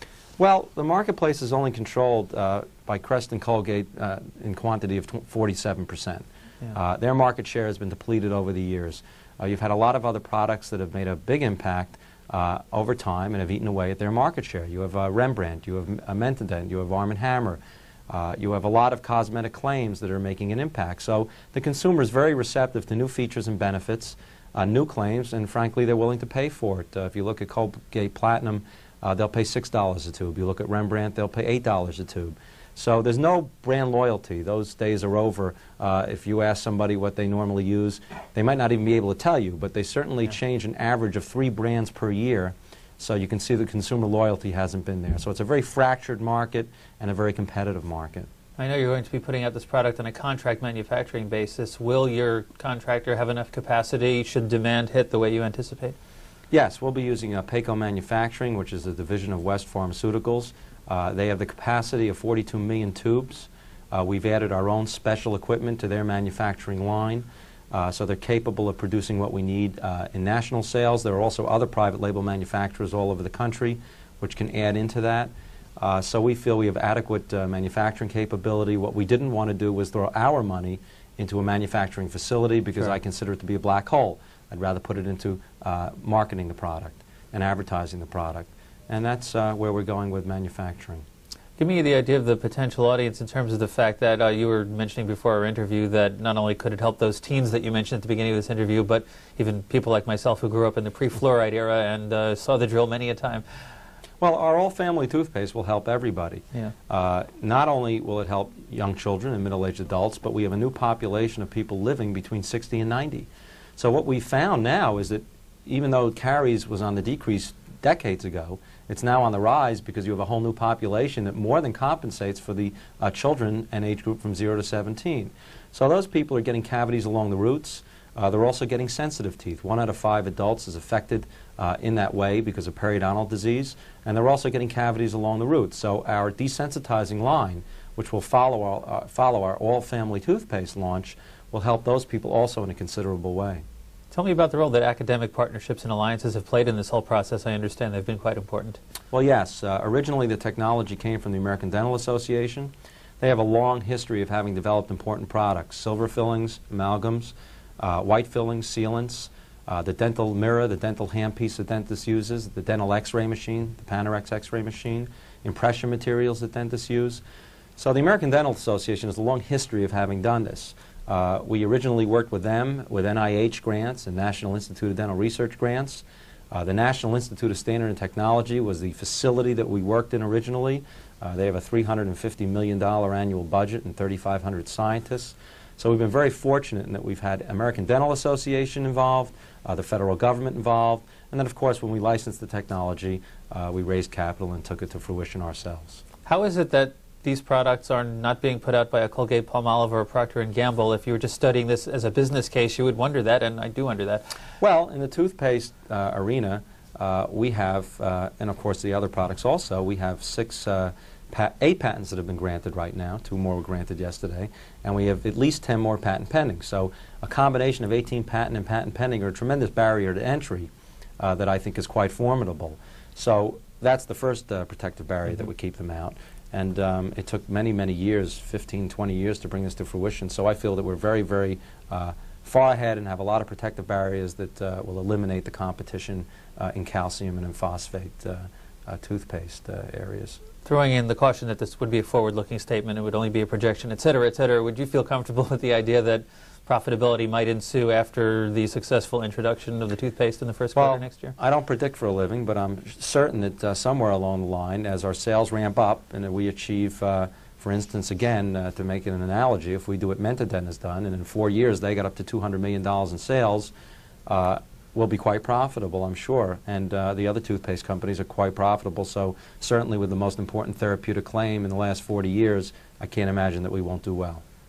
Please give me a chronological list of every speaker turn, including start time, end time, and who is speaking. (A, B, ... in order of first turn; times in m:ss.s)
0:00.4-0:48.3 A
0:48.6-0:56.0 B
0:56.5-1:31.0 A
1:31.6-1:43.4 B
1:44.2-2:23.6 A
2:24.1-2:28.8 B
2:29.1-2:47.2 A
2:47.8-3:16.0 A
3:16.2-3:24.3 B
3:24.6-4:00.4 A
4:00.6-4:11.3 B
4:10.7-4:23.7 A
4:24.3-4:34.4 A